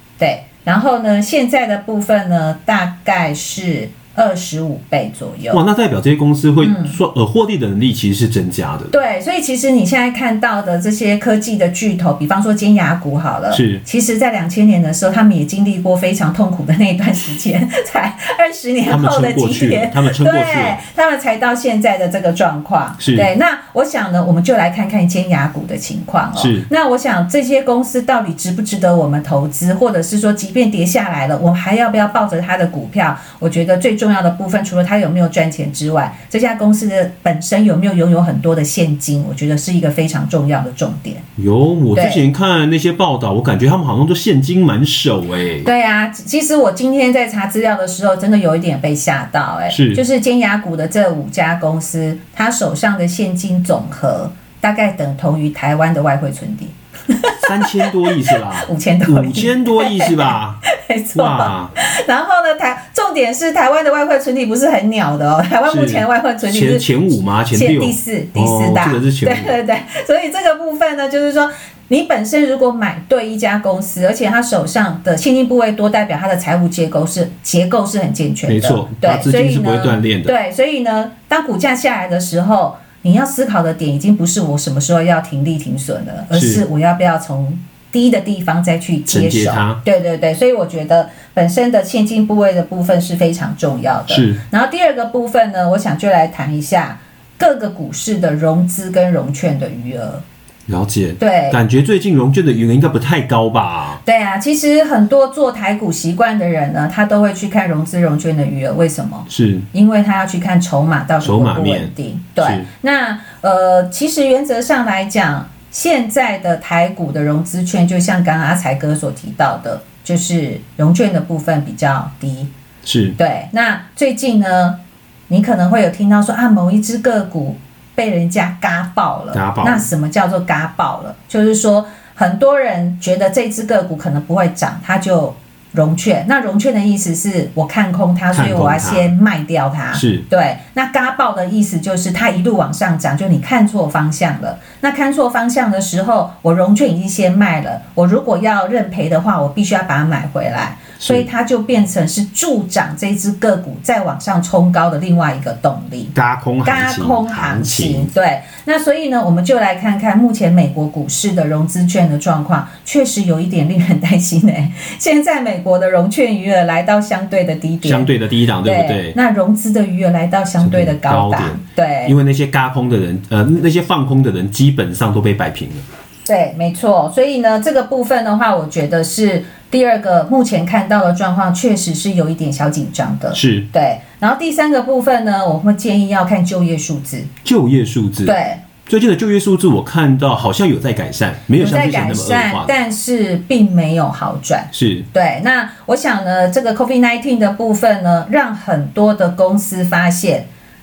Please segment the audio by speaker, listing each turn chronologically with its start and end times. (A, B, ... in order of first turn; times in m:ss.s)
0:00.2-0:05.6 A
0:05.5-0:08.9 B
0:06.6-0:06.9 A
0:08.9-0:41.2 A
0:13.5-0:13.8 B
0:18.9-0:20.8 B
0:23.0-0:23.3 B
0:26.4-0:26.7 B
0:41.4-0:45.7 B
0:41.9-0:42.2 A
0:45.6-1:07.0 A
0:49.7-0:50.0 B
0:57.4-1:00.6 B
1:01.1-1:01.7 B
1:05.7-1:09.6 B
1:07.5-1:40.2 A
1:18.4-1:20.3 B
1:26.3-1:26.6 B
1:29.1-1:29.8 B
1:34.1-1:34.4 B
1:40.7-1:44.0 B
1:41.2-1:41.6 A
1:44.0-2:02.5 A
1:49.3-1:49.7 B
1:51.2-1:52.7 B
2:02.8-2:03.2 B
2:03.2-2:04.8 A
2:05.3-2:48.1 A
2:09.3-2:09.8 B
2:18.3-2:19.1 B
2:19.9-2:20.2 B
2:31.0-2:31.3 B
2:36.1-2:38.1 B
2:47.8-2:49.2 B
2:48.6-2:52.1 A
2:50.6-2:55.8 B
2:56.2-3:07.3 A
3:03.3-3:03.7 B
3:07.4-3:12.7 B
3:08.2-3:08.6 A
3:11.6-3:20.5 A
3:14.7-3:15.1 B